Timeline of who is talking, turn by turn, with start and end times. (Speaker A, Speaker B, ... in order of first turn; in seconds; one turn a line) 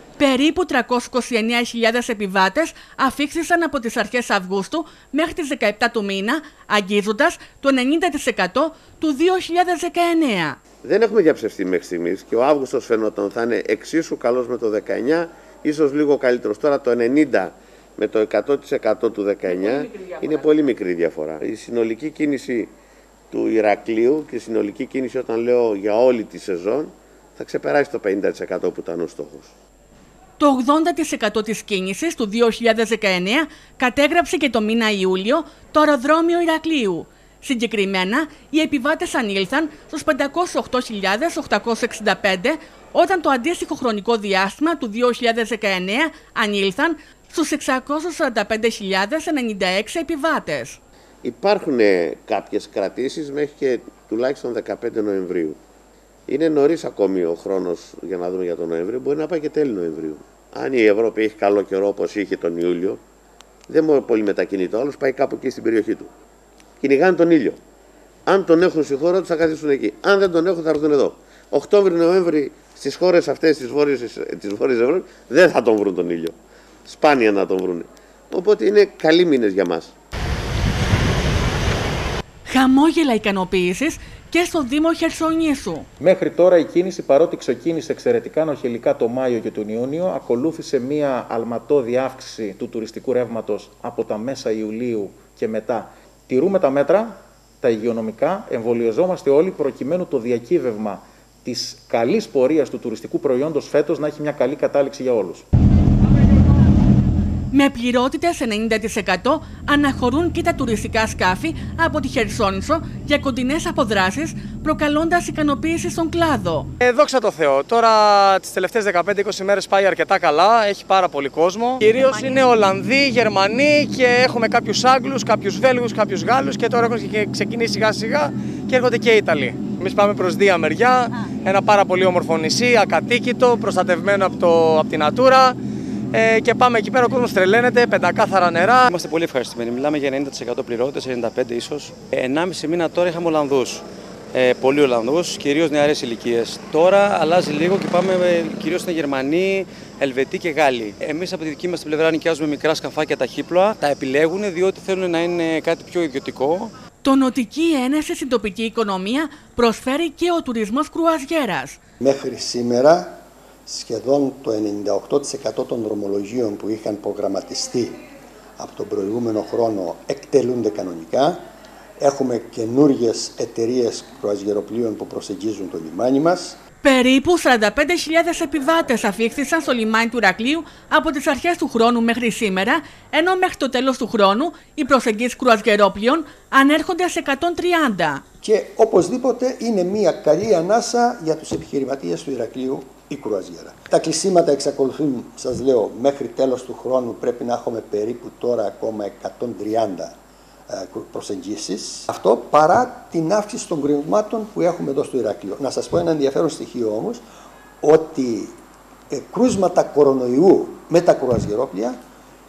Speaker A: 0.2-10.6
Speaker B: 10.8-22.7
Speaker B: 23.3-29.5
Speaker A: 30.4-50.8
Speaker B: 51.2-55.6
Speaker B: 56.3-63.0
Speaker B: 63.7-66.1
Speaker B: 66.8-67.6
Speaker B: 68.2-76.3
Speaker B: 76.8-79.9
Speaker A: 82.5-85.9
Speaker C: 86.0-105.5
Speaker A: 107.5-116.7
Speaker D: 116.8-135.6
Speaker A: 121.8-122.4
Speaker D: 136.1-138.9
Speaker E: 138.8-156.7
Speaker A: 157.0-161.8
Speaker F: 162.0-168.0
Speaker F: 168.6-171.4
Speaker F: 172.0-176.6
Speaker A: 176.8-188.2
Speaker F: 188.4-200.2
Speaker F: 200.7-207.2
Speaker F: 207.8-208.6
Speaker F: 209.1-212.0